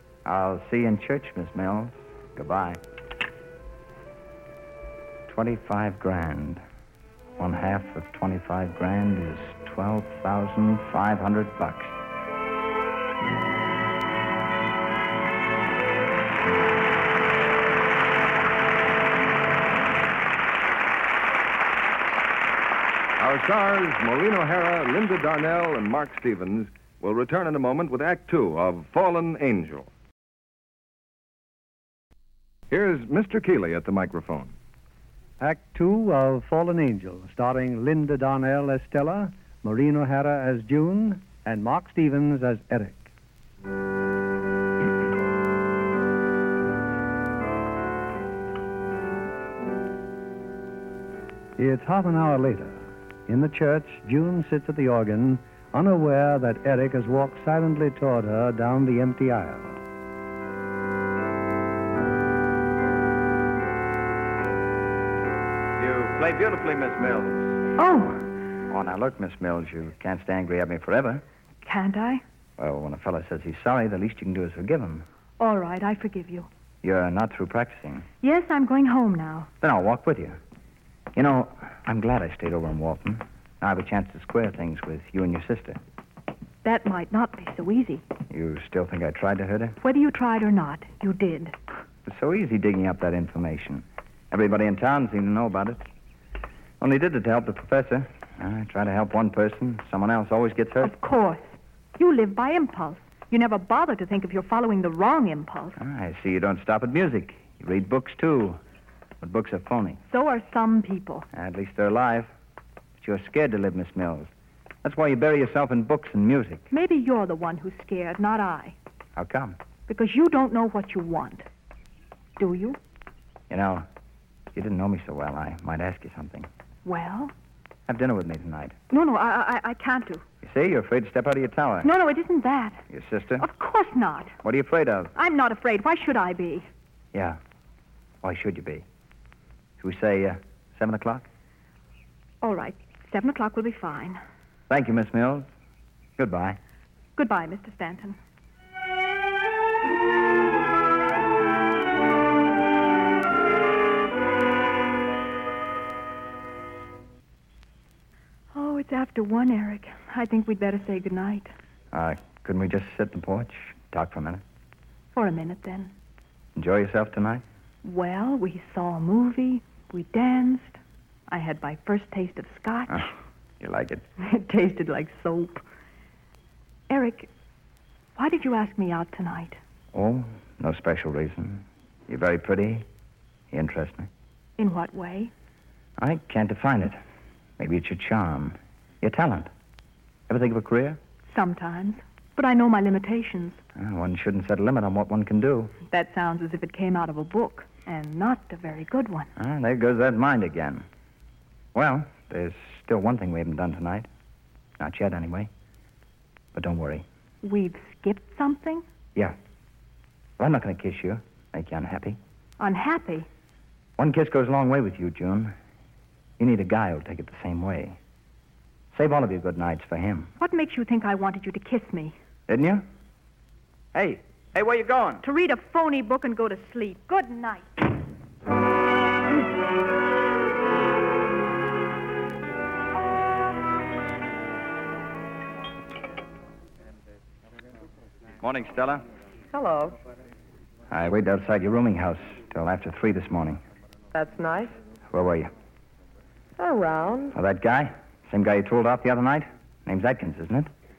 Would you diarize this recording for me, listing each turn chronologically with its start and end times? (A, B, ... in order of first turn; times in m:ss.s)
0:00.2-0:02.8 A
0:05.3-0:06.6 A
0:07.4-0:12.0 A
0:23.2-0:29.9 B
0:32.7-0:34.5 B
0:35.4-0:43.1 C
0:51.6-0:59.8 C
1:05.8-1:07.4 B
1:07.8-1:08.2 D
1:08.7-1:11.2 A
1:11.6-1:12.2 D
1:12.6-1:15.0 A
1:15.4-1:16.5 D
1:16.8-1:18.1 A
1:18.2-1:19.5 D
1:19.6-1:20.4 A
1:21.1-1:25.8 A
1:26.6-1:28.0 D
1:28.3-1:29.8 A
1:29.8-1:31.6 D
1:32.0-1:35.8 A
1:36.8-1:40.9 A
1:40.8-1:45.8 D
1:45.8-1:48.6 A
1:49.2-1:50.0 A
1:50.0-1:51.3 D
1:51.3-1:52.3 A
1:53.0-1:54.3 A
1:54.8-1:56.7 A
1:56.7-1:58.8 D
1:59.2-1:59.6 A
1:59.9-2:01.4 D
2:02.4-2:02.8 D
2:03.5-2:03.9 A
2:04.5-2:06.5 A
2:06.8-2:07.3 D
2:07.9-2:08.8 A
2:08.9-2:10.2 D
2:10.4-2:11.9 A
2:11.8-2:12.8 D
2:12.9-2:13.4 A
2:13.4-2:14.4 D
2:14.4-2:15.1 A
2:15.1-2:16.7 D
2:17.1-2:17.4 A
2:18.2-2:18.8 A
2:19.8-2:21.2 A
2:22.4-2:24.2 D
2:24.7-2:25.5 A
2:26.2-2:26.6 A
2:27.2-2:28.2 D
2:38.5-2:41.5 D
2:41.9-2:44.4 A
2:45.1-2:45.9 D
2:46.6-2:47.4 A
2:47.8-2:53.1 D
2:52.9-2:54.0 A
2:54.2-2:55.6 D
2:56.9-2:57.3 D
2:58.2-2:59.6 D
2:59.9-3:02.8 A
3:03.5-3:04.1 A
3:04.6-3:05.3 D
3:06.0-3:07.0 A
3:07.6-3:09.5 A
3:10.3-3:11.0 A
3:11.2-3:13.6 D
3:13.8-3:15.8 A
3:15.8-3:19.3 D
3:19.4-3:20.8 A
3:21.7-3:24.1 A
3:24.8-3:25.5 A
3:26.5-3:27.0 A
3:27.4-3:28.8 D
3:30.4-3:32.2 A
3:32.6-3:33.3 D
3:34.0-3:35.5 A
3:36.4-3:38.0 A
3:38.9-3:40.3 A
3:40.4-3:42.2 D
3:42.5-3:42.8 A
3:43.9-3:45.2 A
3:45.2-3:47.8 D
3:58.4-3:59.0 A
3:59.5-4:00.0 E
4:00.9-4:03.6 A
4:04.1-4:04.7 E
4:05.1-4:05.5 A
4:06.6-4:07.4 E
4:07.3-4:10.7 A